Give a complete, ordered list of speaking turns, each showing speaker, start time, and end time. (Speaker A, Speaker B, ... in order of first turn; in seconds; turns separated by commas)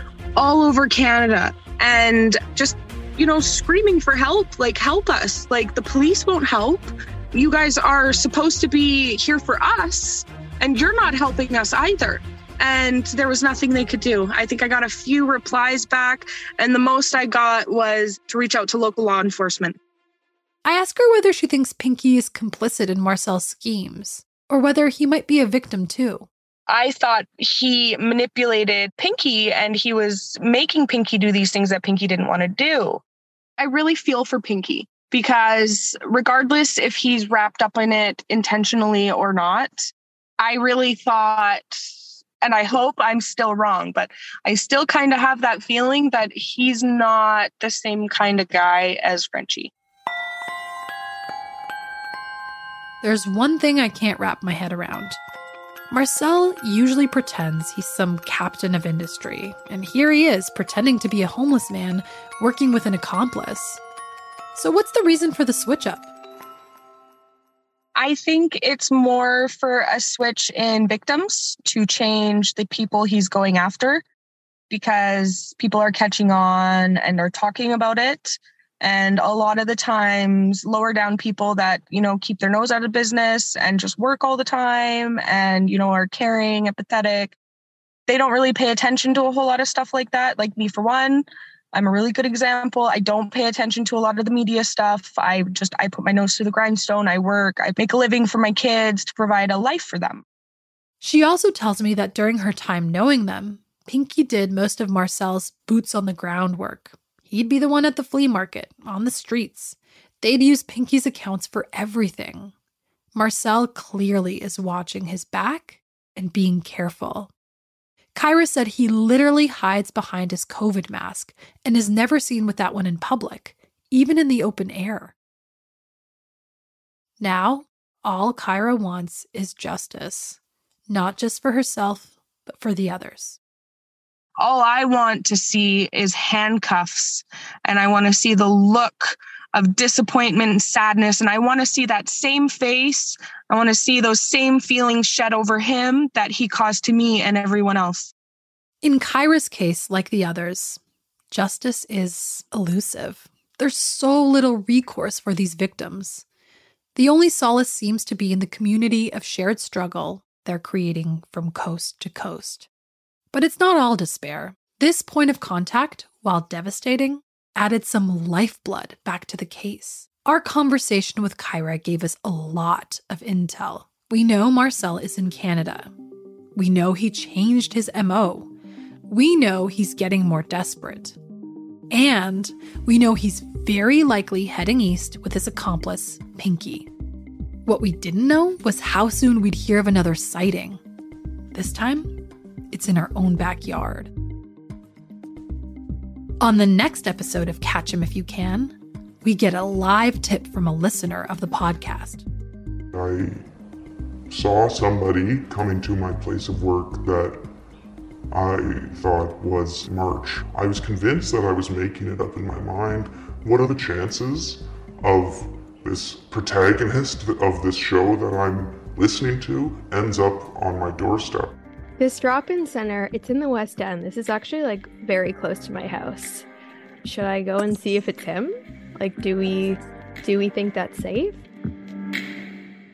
Speaker A: 0.3-19.8, Speaker B: 20.6-26.3, Speaker A: 26.7-33.0, Speaker A: 33.6-39.9, Speaker A: 40.4-41.8, Speaker A: 42.4-49.7, Speaker B: 53.0-55.2, Speaker B: 55.9-63.8, Speaker B: 64.5-66.1, Speaker A: 68.0-74.0, Speaker A: 74.7-87.3, Speaker A: 88.1-100.2, Speaker B: 101.0-112.5, Speaker B: 113.1-117.3, Speaker B: 118.1-125.1, Speaker B: 127.2-133.4, Speaker A: 134.4-148.1, Speaker B: 148.8-150.8, Speaker B: 151.3-156.2, Speaker B: 156.9-162.7, Speaker B: 163.3-175.9, Speaker B: 176.6-178.5, Speaker B: 179.1-181.2, Speaker B: 181.9-186.9, Speaker B: 187.7-190.8, Speaker B: 191.5-192.1, Speaker B: 192.7-194.1, Speaker B: 196.4-202.2, Speaker C: 202.9-203.4, Speaker C: 204.3-207.4, Speaker C: 208.3-221.5, Speaker D: 222.0-226.4, Speaker D: 227.0-231.4